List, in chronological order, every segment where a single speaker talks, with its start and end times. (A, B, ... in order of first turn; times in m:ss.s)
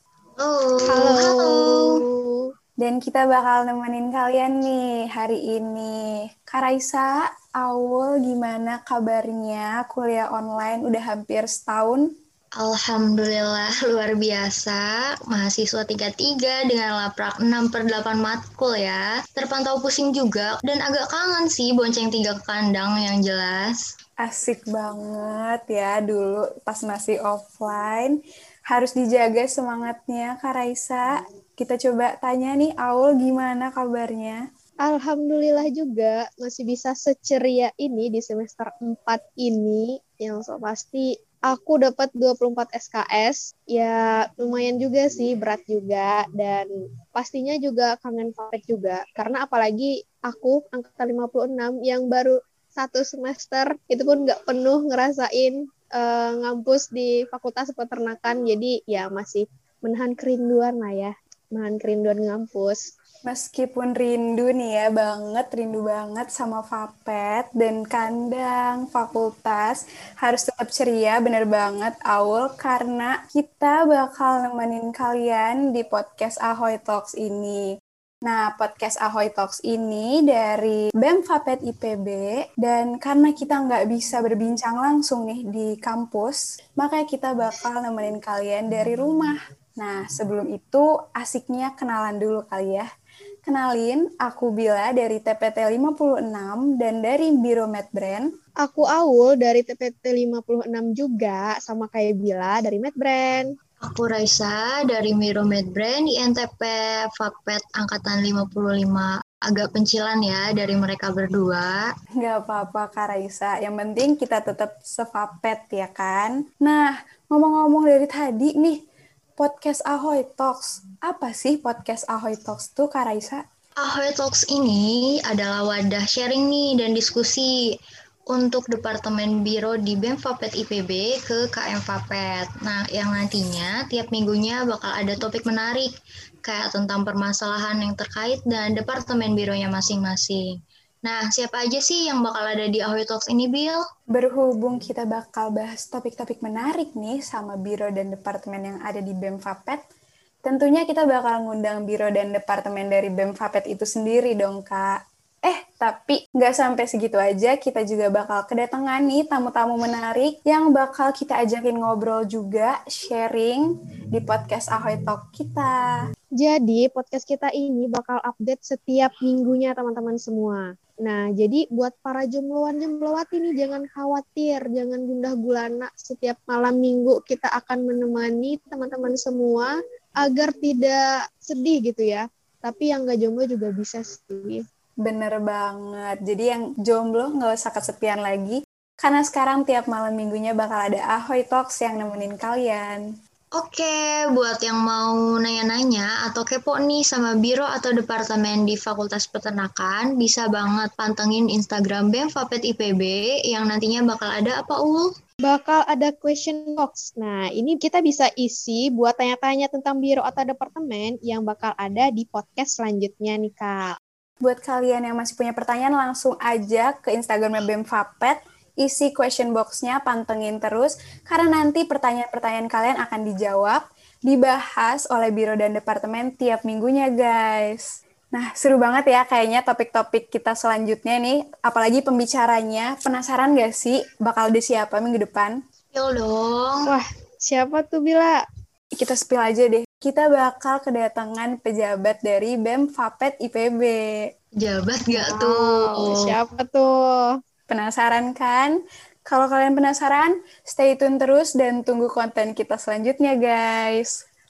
0:00.4-0:02.0 A
0:00.9-0:02.4 B
0:02.8-0:05.9 C
0:06.4-0:12.0 C
0:12.6-0:23.8 A
0:24.2-0:28.2 C
0:28.7-0:34.4 C
0:34.9-1:02.8 B
1:03.3-1:17.6 C
1:18.2-1:32.9 C
1:33.4-1:38.3 C
1:38.6-1:43.5 B
1:43.8-1:51.8 A
1:52.2-1:58.8 C
1:59.4-2:03.4 C
2:03.8-2:07.5 A
2:08.3-2:15.9 A
2:16.4-2:20.5 A
2:21.0-2:23.8 A
2:24.1-2:29.8 C
2:30.4-2:45.9 C
2:46.4-3:04.6 B
3:05.0-3:13.0 C
3:13.6-3:25.1 A
3:25.4-3:33.9 B
3:34.4-3:55.6 C
3:55.9-3:56.9 A
3:56.8-3:58.4 B
3:59.0-4:04.2 C
4:04.6-4:06.3 A
4:05.1-4:07.3 B
4:07.7-4:08.7 C
4:09.3-4:14.1 C